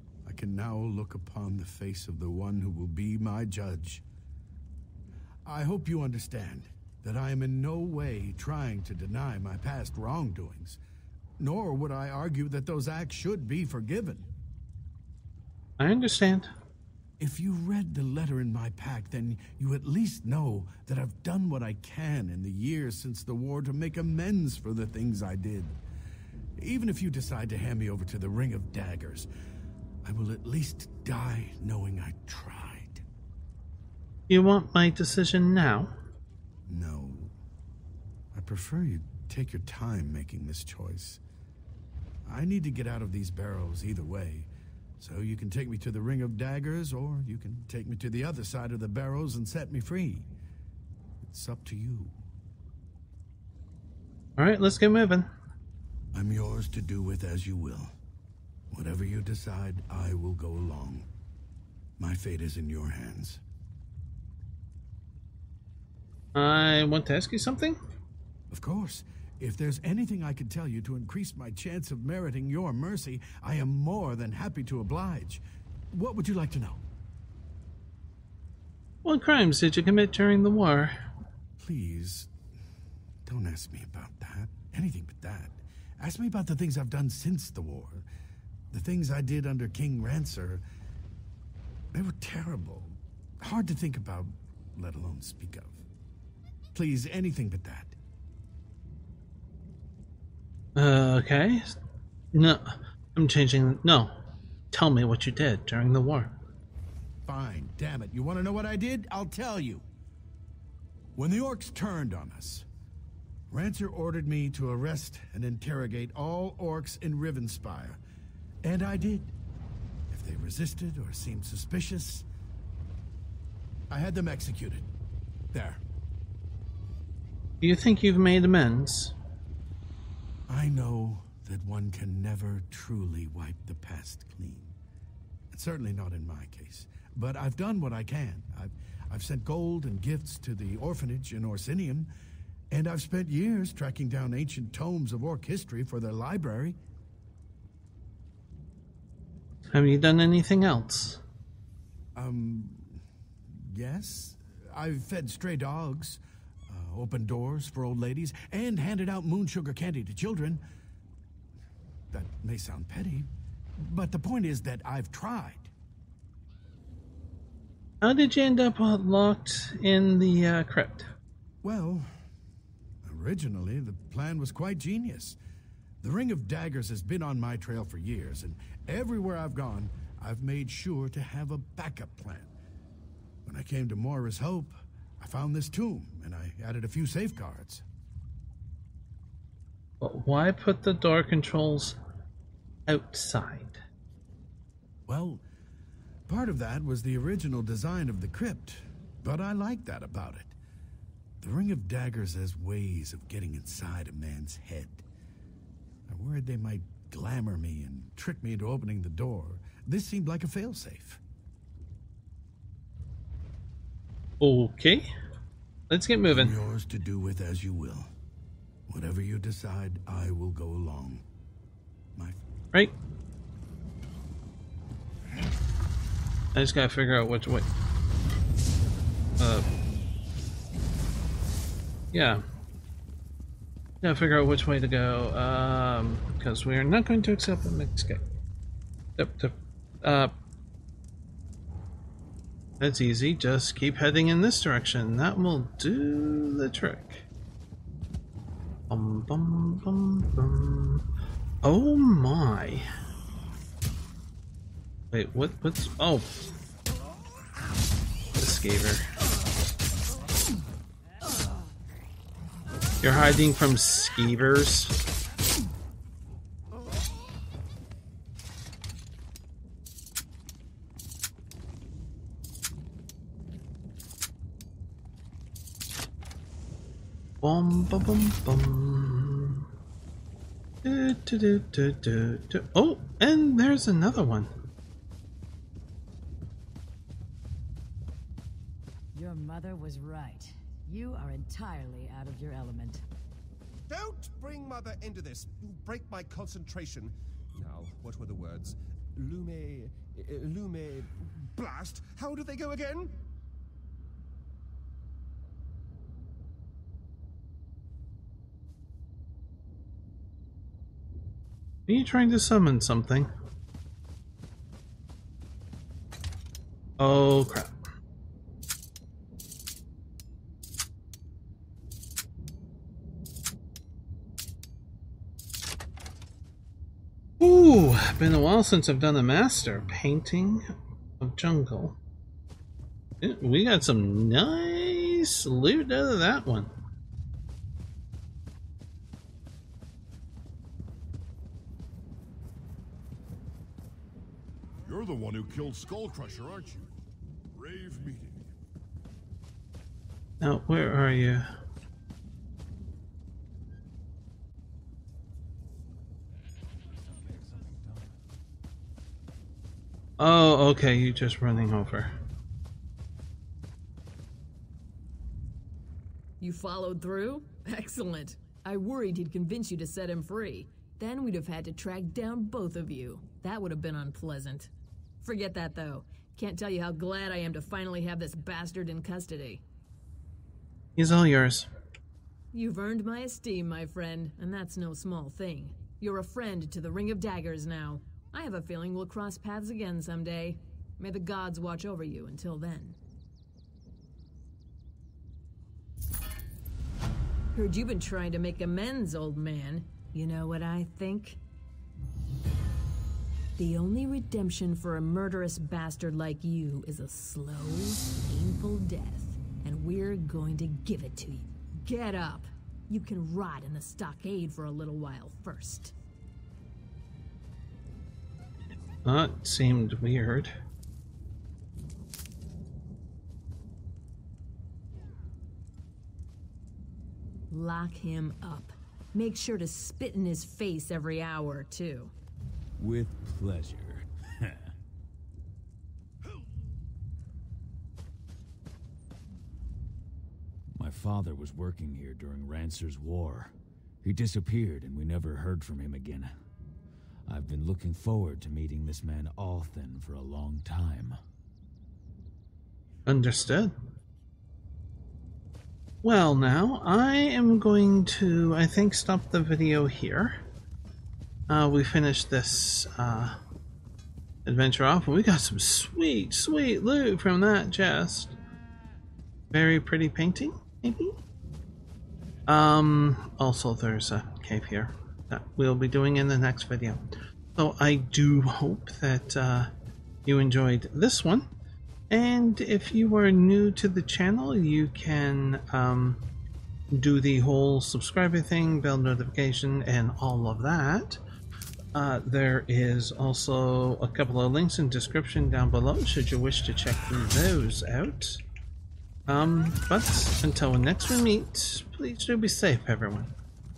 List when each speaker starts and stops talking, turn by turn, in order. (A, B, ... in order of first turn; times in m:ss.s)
0:00.2-0:04.0 A
0:05.5-0:10.8 A
0:11.4-0:14.3 A
0:15.8-0:16.5 B
0:17.2-0:25.8 A
0:26.6-0:29.3 A
0:30.0-0:33.0 A
0:34.3-0:35.9 B
0:36.7-0:37.3 A
0:38.3-0:41.2 A
0:42.3-0:50.3 A
0:51.2-0:52.2 A
0:54.4-0:55.3 B
0:56.1-0:57.9 A
0:58.7-1:01.1 A
1:02.0-1:03.4 A
1:06.4-1:07.8 B
1:08.5-1:16.8 A
1:19.0-1:21.0 B
1:21.6-1:22.3 A
1:23.3-1:28.1 A
1:28.7-1:30.6 A
1:31.9-1:35.8 A
1:36.7-1:38.0 A
1:40.8-1:41.7 B
1:42.3-1:44.1 B
1:44.7-1:46.3 B
1:47.2-1:49.8 A
1:51.2-1:52.7 A
1:53.5-1:58.0 A
1:58.6-1:59.3 A
2:00.1-2:02.3 A
2:03.9-2:04.9 A
2:05.5-2:05.8 A
2:07.6-2:09.1 B
2:10.5-2:14.8 A
2:15.5-2:22.1 A
2:22.7-2:26.8 A
2:29.7-2:31.2 B
2:32.2-2:33.0 A
2:33.6-2:40.6 A
2:42.1-2:45.7 A
2:48.0-2:51.1 B
2:51.6-2:52.1 A
2:53.0-2:55.4 A
2:56.0-3:02.5 A
3:03.4-3:07.8 A
3:10.0-3:12.0 B
3:12.9-3:13.8 B
3:15.1-3:15.4 A
3:16.3-3:20.6 A
3:21.4-3:25.0 A
3:26.1-3:31.2 A
3:34.4-3:35.1 B
3:35.9-3:36.6 B
3:36.3-3:38.1 A
3:38.9-3:41.2 A
3:46.6-3:47.7 B
3:49.4-3:49.6 B
3:52.1-3:52.4 B
3:54.0-3:58.3 B
3:59.2-4:00.3 B
4:02.8-4:07.3 B
4:08.9-4:11.1 B
4:11.6-4:12.9 B
4:15.1-4:16.4 B
4:18.4-4:19.0 B
4:23.0-4:25.0 B
4:37.4-4:39.7 B
4:40.8-4:44.5 B
4:49.2-4:53.0 C
4:53.9-5:03.1 D
5:11.9-5:13.3 B
5:17.0-5:17.7 B
5:27.4-5:30.7 B
5:31.2-5:32.0 B
5:33.2-5:36.7 B
5:44.9-5:46.9 E
5:47.5-5:48.5 E
5:50.4-5:51.5 B
5:57.4-5:57.9 F
6:00.2-6:02.1 B
6:06.4-6:14.7 G
6:15.2-6:19.6 G
6:21.0-6:21.7 B
6:22.5-6:33.0 G
6:37.5-6:41.4 G
6:43.6-6:55.9 G
6:59.0-7:00.5 B
7:07.5-7:12.1 G
7:12.8-7:14.7 F
7:20.8-7:26.3 F
7:27.3-7:31.2 F
7:33.1-7:33.7 B
7:36.0-7:40.4 B
7:41.5-7:43.4 B
7:44.5-7:48.4 B
7:49.5-7:51.2 B
7:52.5-7:59.7 B
8:00.2-8:01.5 B
8:02.1-8:06.3 B
8:06.9-8:11.2 B
8:11.9-8:18.4 B
8:19.3-8:23.3 B